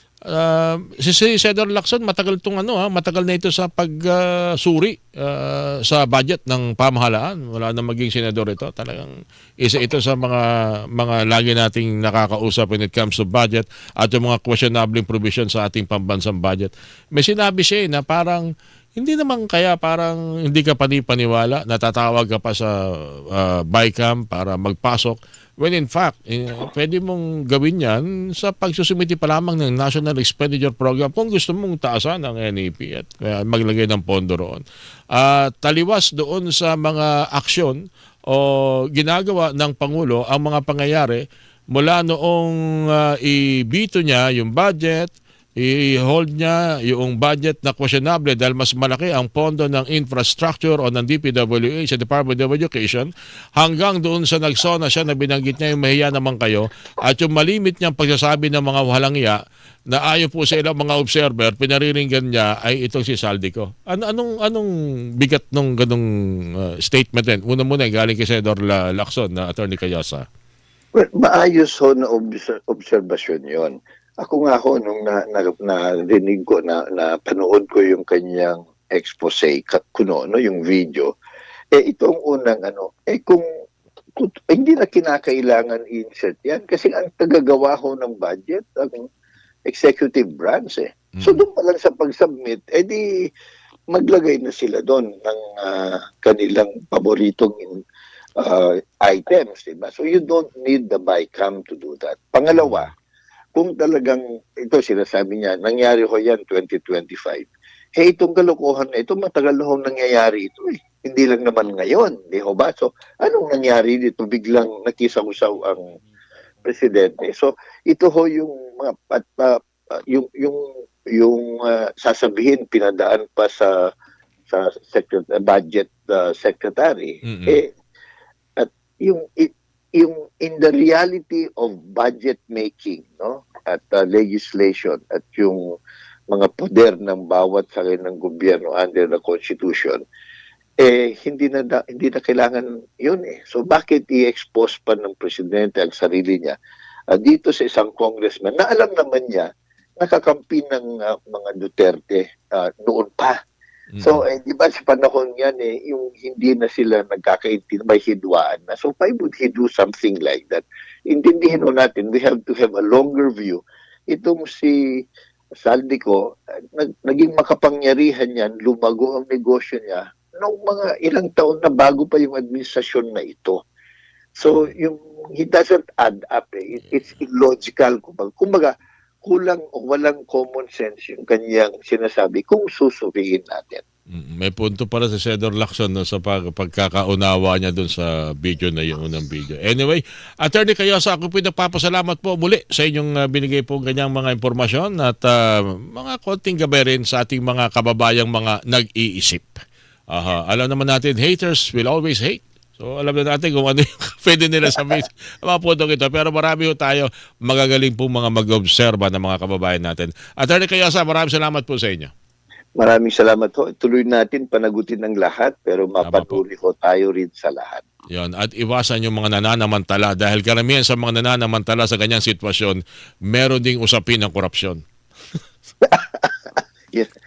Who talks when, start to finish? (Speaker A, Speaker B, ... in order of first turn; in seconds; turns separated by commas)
Speaker A: 0.3-10.4, Speaker A: 10.9-22.7, Speaker A: 23.3-37.8, Speaker A: 38.3-59.4, Speaker A: 59.9-70.3, Speaker B: 71.0-81.1, Speaker B: 81.7-83.5, Speaker B: 84.2-89.1, Speaker B: 89.7-93.3, Speaker A: 91.2-91.4, Speaker B: 93.9-97.8, Speaker B: 98.4-102.9, Speaker A: 102.5-102.9, Speaker B: 103.5-116.0, Speaker B: 116.7-123.7, Speaker B: 124.5-127.7, Speaker A: 127.2-127.6, Speaker B: 128.6-135.6, Speaker B: 136.3-140.0, Speaker B: 140.8-146.6, Speaker B: 147.1-149.5, Speaker B: 150.0-153.4, Speaker A: 153.9-154.2, Speaker B: 154.0-164.8, Speaker B: 165.6-166.2, Speaker B: 166.7-173.6, Speaker B: 174.4-183.8, Speaker A: 184.1-212.1, Speaker B: 204.7-205.0, Speaker B: 212.8-217.8, Speaker A: 216.0-216.4, Speaker A: 218.1-224.8, Speaker B: 225.8-227.1